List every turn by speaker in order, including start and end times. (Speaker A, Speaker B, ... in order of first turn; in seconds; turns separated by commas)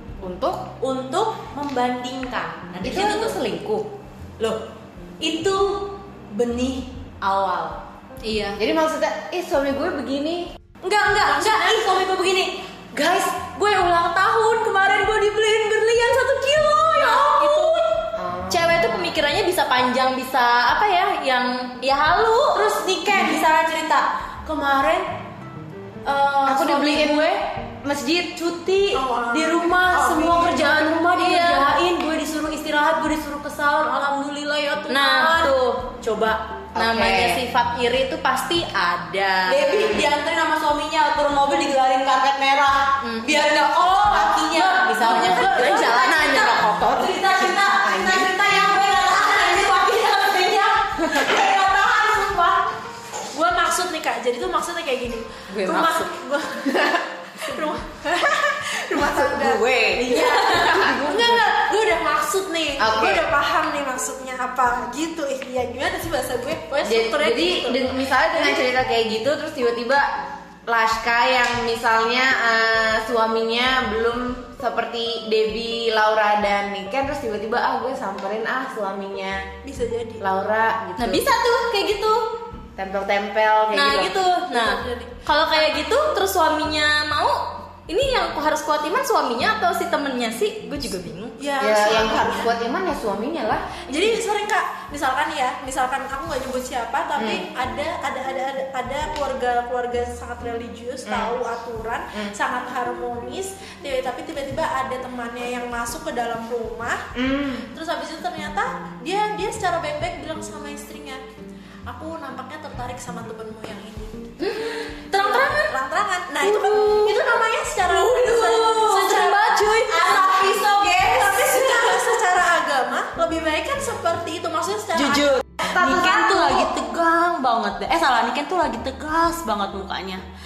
Speaker A: 0.2-0.6, Speaker B: 0.8-3.4, Speaker A: 2.8-3.9, Speaker B: 5.2-7.8, Speaker C: 8.2-8.6, Speaker A: 8.6-10.5, Speaker B: 10.8-17.9, Speaker D: 11.4-11.8, Speaker C: 17.0-17.9, Speaker A: 18.1-19.1, Speaker C: 18.5-22.8, Speaker B: 22.5-25.1, Speaker B: 26.0-27.4, Speaker A: 26.4-28.3, Speaker B: 28.3-36.5, Speaker D: 28.9-30.8, Speaker C: 31.0-31.8, Speaker C: 34.9-35.9, Speaker A: 36.7-37.4, Speaker C: 36.7-40.0, Speaker B: 39.5-52.7, Speaker C: 43.0-47.1, Speaker A: 47.8-48.3, Speaker D: 53.3-68.6, Speaker A: 55.5-56.1, Speaker A: 56.7-57.0, Speaker A: 58.9-61.6, Speaker A: 62.8-63.2, Speaker A: 66.8-70.1, Speaker A: 70.7-79.5, Speaker D: 79.6-80.2, Speaker A: 80.2-81.3, Speaker C: 81.0-82.2, Speaker A: 82.8-84.2, Speaker C: 83.7-91.3, Speaker D: 84.5-85.3, Speaker D: 91.4-92.5, Speaker A: 91.6-93.9, Speaker D: 93.9-107.1, Speaker A: 97.2-97.4, Speaker A: 101.0-101.3, Speaker A: 107.1-107.7, Speaker D: 107.7-111.2, Speaker D: 111.9-114.3, Speaker C: 114.4-115.7, Speaker D: 115.1-120.1, Speaker C: 116.4-122.0, Speaker B: 119.9-121.3, Speaker D: 121.0-125.4, Speaker B: 125.2-130.2, Speaker A: 125.6-126.5